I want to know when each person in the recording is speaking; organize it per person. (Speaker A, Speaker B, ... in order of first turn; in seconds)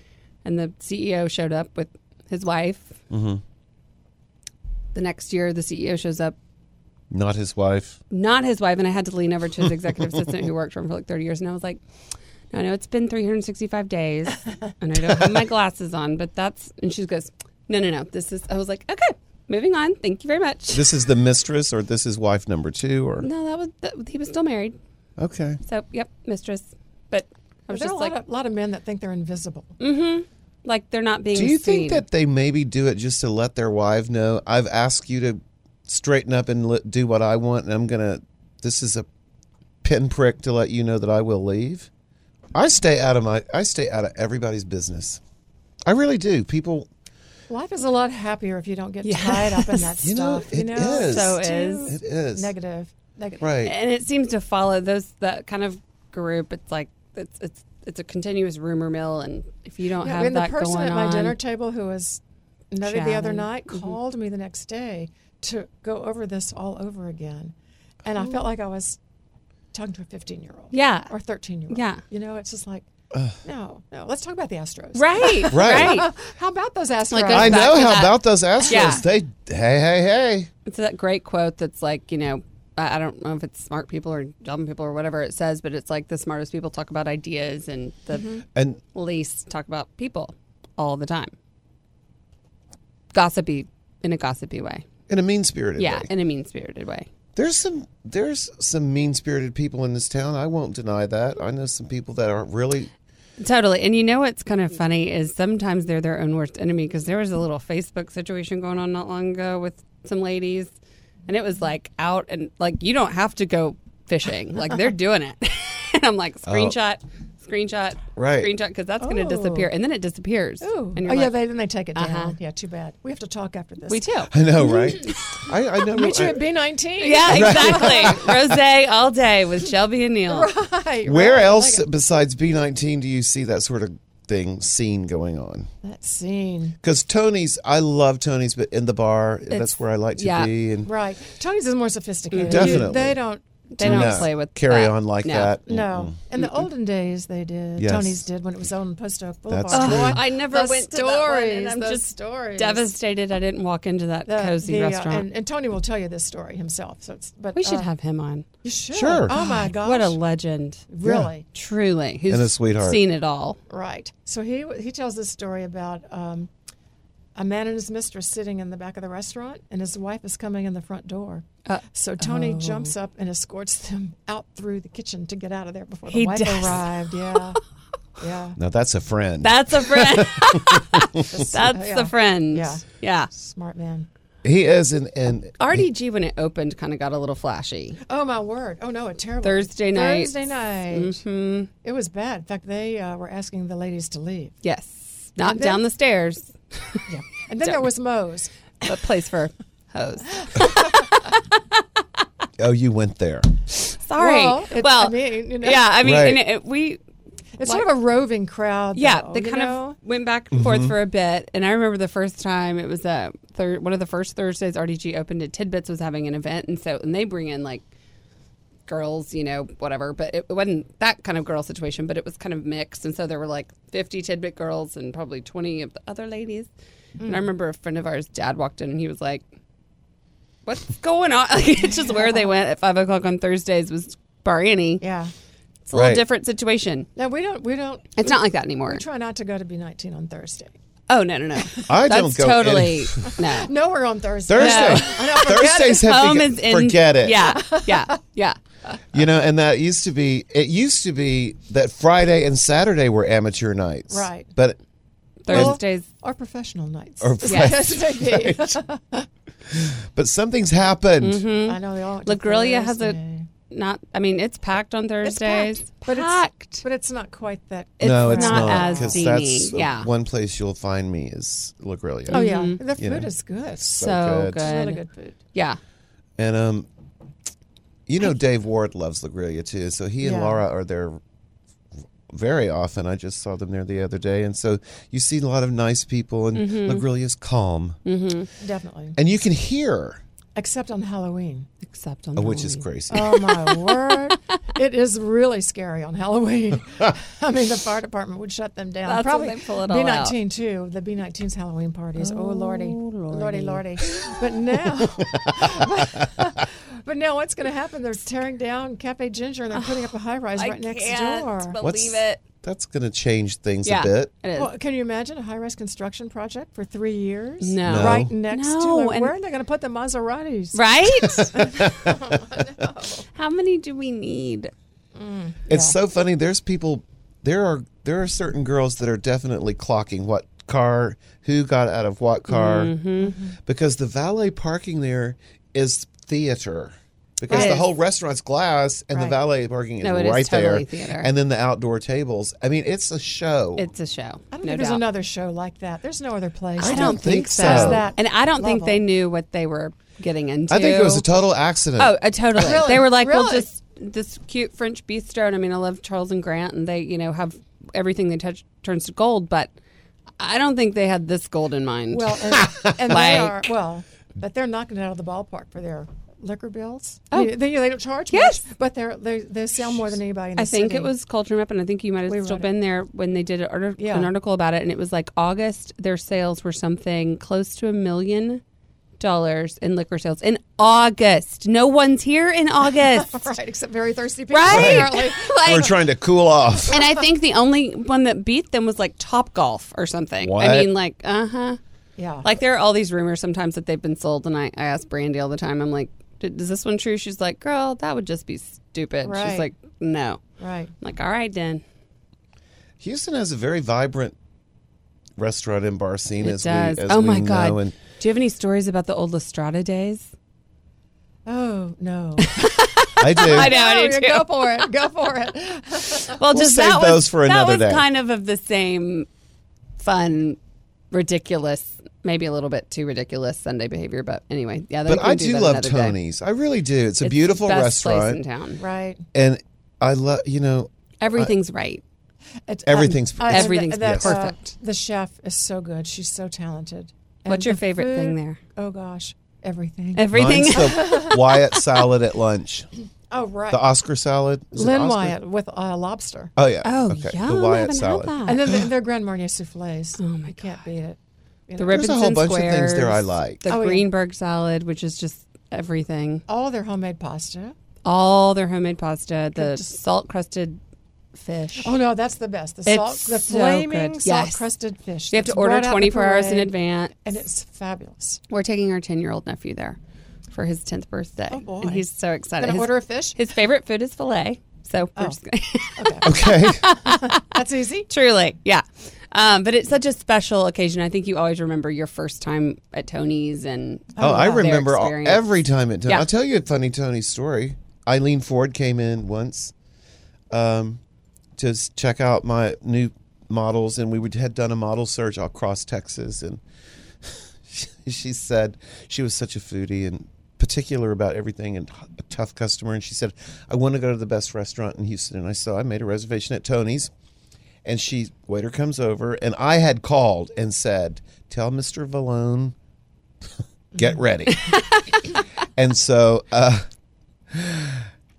Speaker A: 0.4-3.0, 4.9-6.3, 8.1-11.8, 12.5-20.9, 23.2-24.8, 25.6-28.1, 29.8-32.0, 49.0-50.1, 50.7-52.0, 53.6-61.4, 62.8-63.9, 70.7-71.1, 71.7-72.0, 74.9-76.1, 77.1-79.0, 80.7-88.3, 88.9-91.3, 93.1-94.8, 95.8-97.1, 103.4-110.7, 111.3-121.3, 121.9-122.3, 123.9-124.3, 125.0-125.4, 126.0-126.2, 127.0-130.5, 139.5-140.5, 142.3-142.9, 143.7-145.5, 146.4-146.6, 149.7-155.3, 157.5-158.4, 159.3-160.9, 161.5-163.6, 171.7-172.9, 176.1-177.5, 179.4-183.3, 185.6-188.0, 189.4-191.7, 194.6-197.0, 198.8-201.5, 203.8-207.0, 207.6-207.9, 208.9-217.8, 218.9-226.7, 227.2-229.4, 230.7-235.0, 235.8-237.1, 238.2-239.0, 241.1-243.7, 244.6-248.6, 255.4-256.1, 257.4-257.8, 261.2-263.2, 263.7-266.8, 268.0-270.1, 272.3-272.8, 273.8-275.0, 275.5-275.8, 286.5-287.1, 288.0-288.5, 291.8-294.3, 299.0-300.3, 302.2-304.3, 309.7-312.4, 313.8-314.7, 317.6-319.3, 320.7-321.8, 323.3-324.7, 332.5-333.3, 337.5-337.9, 340.0-341.3, 343.8-345.0, 346.8-351.3, 352.0-359.7, 360.4-363.7, 368.3-368.6, 370.6-378.6, 379.2-383.5, 384.5-386.0, 386.9-391.8, 392.4-400.4, 401.0-401.8, 406.4-410.3, 412.4-414.9, 416.3-419.3, 420.0-420.6, 421.1-426.2, 427.2-428.8, 431.2-432.0, 433.5-434.7, 437.5-438.6, 440.1-441.2, 446.8-448.7, 450.2-450.8, 451.8-456.4, 458.0-460.8, 461.3-461.9, 462.9-464.7, 465.3-467.4, 468.5-470.0, 470.5-486.3
Speaker B: 3.1-3.4, 7.1-8.0, 20.7-23.3, 25.2-25.6, 31.3-39.0, 39.8-41.9, 42.5-45.2, 45.9-46.9, 50.0-52.5, 53.4-53.7, 75.5-76.0, 77.3-80.5, 88.5-88.8, 95.1-96.1, 97.3-102.9, 116.5-116.8, 118.2-118.5, 124.3-126.4, 127.3-128.4, 131.1-135.7, 136.8-140.9, 142.5-143.2, 143.8-146.2, 147.8-148.2, 149.5-150.2, 158.9-159.3, 161.0-161.3, 162.3-163.0, 178.6-181.0, 184.4-185.9, 202.6-203.6, 206.0-206.4, 210.5-210.9, 235.9-236.2, 241.8-243.3, 244.5-247.5, 249.1-254.8, 255.5-255.8, 257.2-258.8, 259.7-261.4, 268.0-273.3, 273.8-274.7, 276.4-276.9, 278.1-281.2, 282.3-288.0, 289.2-290.2, 292.4-293.3, 305.8-306.2, 311.8-314.3, 317.8-318.3, 321.4-322.1, 325.7-332.9, 333.6-343.9, 346.8-348.1, 350.7-352.1, 384.6-387.0, 390.4-390.9, 403.0-404.4, 405.4-408.0, 413.2-413.8, 416.5-418.0, 425.1-428.4, 429.3-431.5, 432.9-434.4, 440.3-442.9, 443.7-445.4, 446.6-448.3, 451.9-453.8, 476.2-476.8, 484.2-489.7, 490.5-491.0, 491.6-496.6, 497.6-507.1, 507.8-512.7, 514.0-514.7, 515.8-516.9, 517.5-518.1
Speaker C: 27.7-29.7, 47.5-53.5, 60.0-69.0, 69.7-72.8, 73.4-77.9, 88.1-88.4, 119.0-119.7, 120.6-128.2, 130.3-131.9, 135.8-136.8, 140.8-144.3, 145.7-152.9, 154.2-157.9, 158.6-160.2, 160.9-161.5, 163.7-166.5, 167.3-177.6, 178.2-178.6, 181.3-184.1, 188.1-191.2, 191.8-194.5, 195.4-195.8, 197.1-198.5, 200.4-201.1, 204.2-206.0, 207.6-210.0, 227.2-227.5, 231.9-232.5, 235.0-235.3, 237.2-240.7, 243.3-246.1, 247.3-248.2, 254.1-254.5, 255.5-259.3, 261.6-263.5, 265.2-269.3, 272.3-273.9, 274.6-275.4, 280.2-280.6, 288.6-289.2, 290.6-291.7, 293.1-311.8, 314.5-320.9, 321.5-323.2, 325.1-326.0, 333.2-333.6, 337.5-337.8, 339.1-339.4, 344.5-349.0, 352.5-353.7, 362.1-371.1, 372.3-372.7, 374.0-374.3, 383.0-385.9, 386.9-387.3, 392.1-392.5, 399.2-399.7, 400.6-400.9, 411.4-412.6, 413.2-416.4, 428.8-429.2, 432.7-441.9, 443.3-443.8, 444.7-446.5, 448.4-452.1, 453.7-454.1, 456.5-457.7, 459.5-459.9, 461.8-468.4, 471.5-473.4, 475.9-476.3, 477.0-478.1, 484.1-484.7, 513.9-514.2